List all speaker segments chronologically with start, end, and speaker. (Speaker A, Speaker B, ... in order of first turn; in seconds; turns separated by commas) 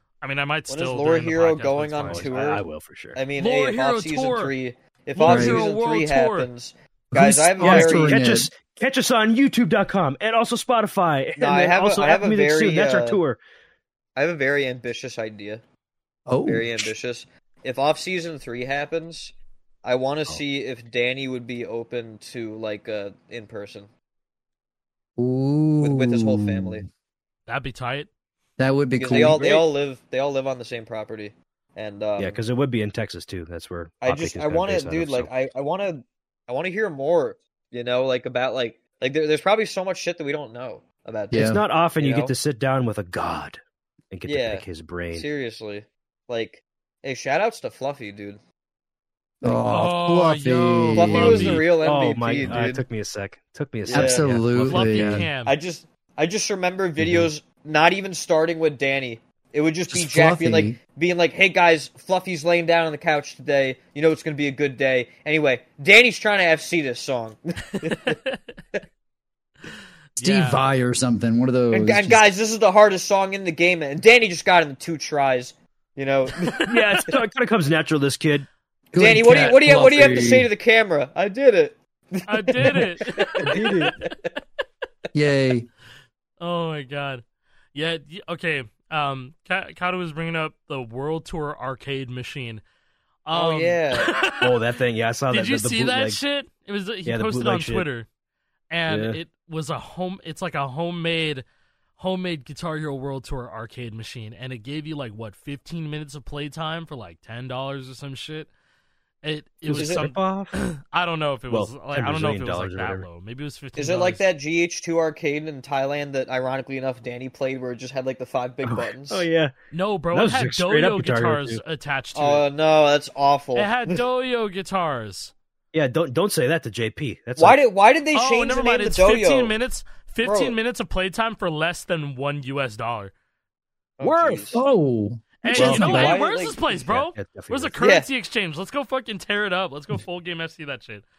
Speaker A: 0.2-2.4, Speaker B: 0.7-2.6, Speaker C: 2.0-3.2, Speaker B: 3.1-8.2, Speaker A: 3.4-4.5, Speaker A: 5.1-6.5, Speaker D: 5.2-5.7, Speaker D: 7.1-8.5, Speaker C: 7.6-13.4, Speaker B: 11.4-13.2, Speaker B: 14.2-15.6, Speaker D: 16.3-16.9, Speaker B: 16.4-23.9, Speaker D: 25.2-26.9, Speaker B: 25.8-26.9, Speaker A: 27.5-28.1, Speaker D: 28.6-29.4, Speaker B: 28.9-32.4, Speaker C: 29.1-29.6, Speaker C: 32.2-35.3, Speaker B: 34.0-42.3, Speaker D: 41.3-41.6, Speaker C: 41.3-43.6, Speaker C: 44.1-45.3, Speaker B: 44.2-48.4, Speaker D: 49.4-51.6, Speaker A: 49.6-51.7, Speaker B: 50.9-52.8, Speaker C: 51.4-55.2, Speaker B: 53.9-54.3, Speaker D: 53.9-55.3, Speaker A: 54.6-55.5, Speaker B: 55.4-68.2, Speaker C: 57.0-57.3, Speaker D: 59.9-60.8, Speaker A: 67.8-68.5, Speaker A: 70.2-70.6, Speaker D: 70.2-72.3, Speaker B: 71.7-76.8, Speaker C: 76.6-78.5, Speaker D: 78.9-80.5, Speaker B: 78.9-84.2, Speaker C: 79.6-79.9, Speaker A: 82.3-84.2, Speaker C: 83.4-84.0, Speaker D: 85.1-85.7, Speaker A: 86.4-92.6, Speaker A: 93.2-94.5, Speaker B: 93.3-94.3, Speaker C: 94.4-96.2, Speaker A: 95.3-98.0, Speaker C: 97.0-97.8, Speaker A: 98.7-101.4, Speaker C: 98.9-99.2, Speaker A: 102.0-108.5, Speaker A: 109.2-114.2, Speaker C: 109.6-110.5, Speaker B: 109.7-110.1, Speaker C: 111.5-113.1, Speaker B: 113.8-119.2, Speaker C: 118.6-119.5, Speaker A: 119.7-122.4, Speaker C: 120.1-121.6, Speaker B: 122.1-124.0, Speaker A: 123.5-125.3, Speaker C: 125.7-127.6, Speaker B: 127.4-129.5, Speaker A: 128.1-133.1, Speaker B: 130.2-130.6, Speaker B: 134.0-134.6, Speaker C: 134.0-134.6, Speaker D: 134.5-136.2, Speaker A: 135.4-141.0, Speaker B: 135.5-136.8, Speaker C: 135.6-136.1, Speaker C: 136.8-137.7, Speaker B: 137.8-138.1